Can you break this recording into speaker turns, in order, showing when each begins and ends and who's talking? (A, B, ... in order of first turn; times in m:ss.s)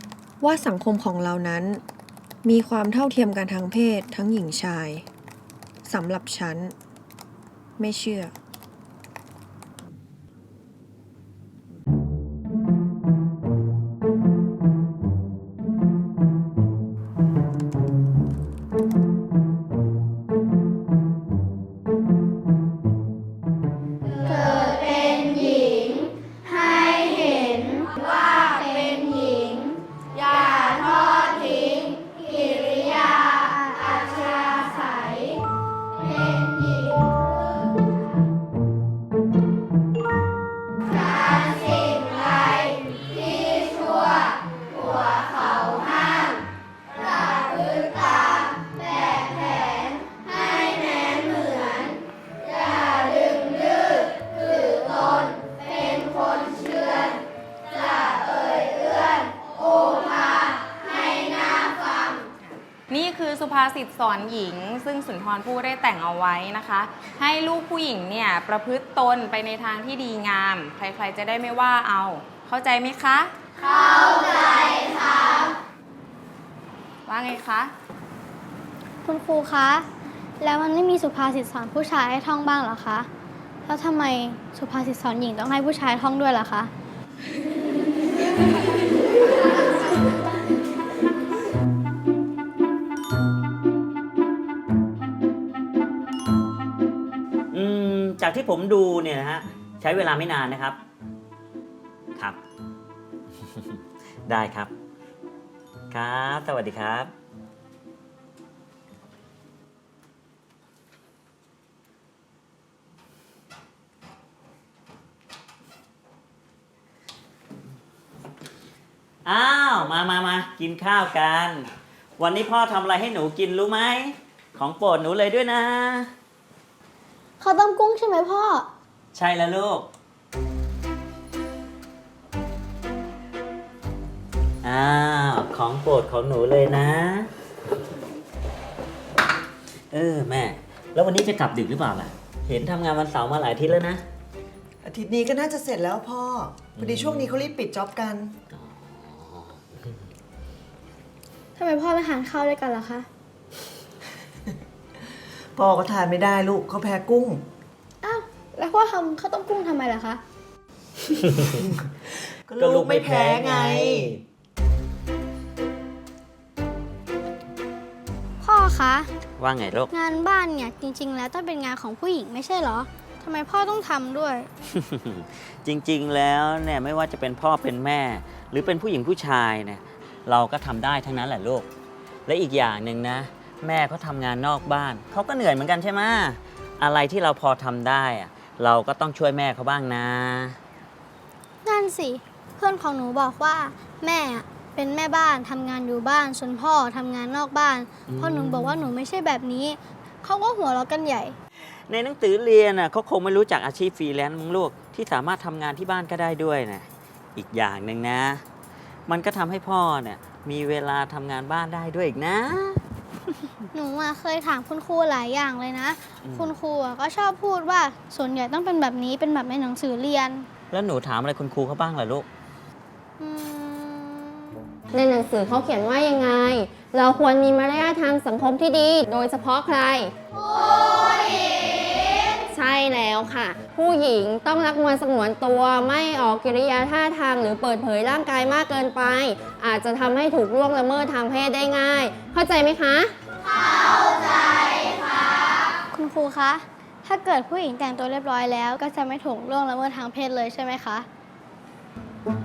0:00.4-0:01.8 A
0:02.4-0:05.0 A
0:05.8-0:06.7 A
0:07.8-0:08.3 A
0:24.3-0:29.6 B
0:30.2-0:35.0 B
1:02.4-1:13.3 C
1:17.0-1:17.7 C
1:19.0-1:19.8 B
1:20.4-1:23.1 B
1:23.7-1:26.7 B
1:37.5-1:40.8 D
1:44.3-1:44.7 D
1:45.9-1:47.1 D
1:59.2-2:06.1 D
2:07.4-2:08.7 B
2:09.1-2:09.9 D
2:14.6-2:17.3 D
2:19.9-2:24.0 D
2:24.8-2:28.3 E
2:26.8-2:27.4 D
2:28.5-2:29.6 D
2:31.6-2:33.1 B
2:35.5-2:37.4 E
2:38.0-2:40.2 B
2:42.5-2:44.2 E
2:42.6-2:44.2 D
2:48.4-2:49.1 B
2:49.4-2:49.9 D
2:49.9-2:54.5 B
2:54.7-3:01.7 D
3:02.2-3:10.6 D
3:11.6-3:21.4 B
3:18.1-3:18.8 D
3:21.9-3:28.4 D
3:29.1-3:32.8 D
3:33.7-3:40.5 B
3:36.2-3:36.5 D
3:40.7-3:42.3 D
3:43.2-3:44.6 B
3:44.9-3:50.1 F
3:52.5-4:03.1 F
4:05.9-4:11.1 B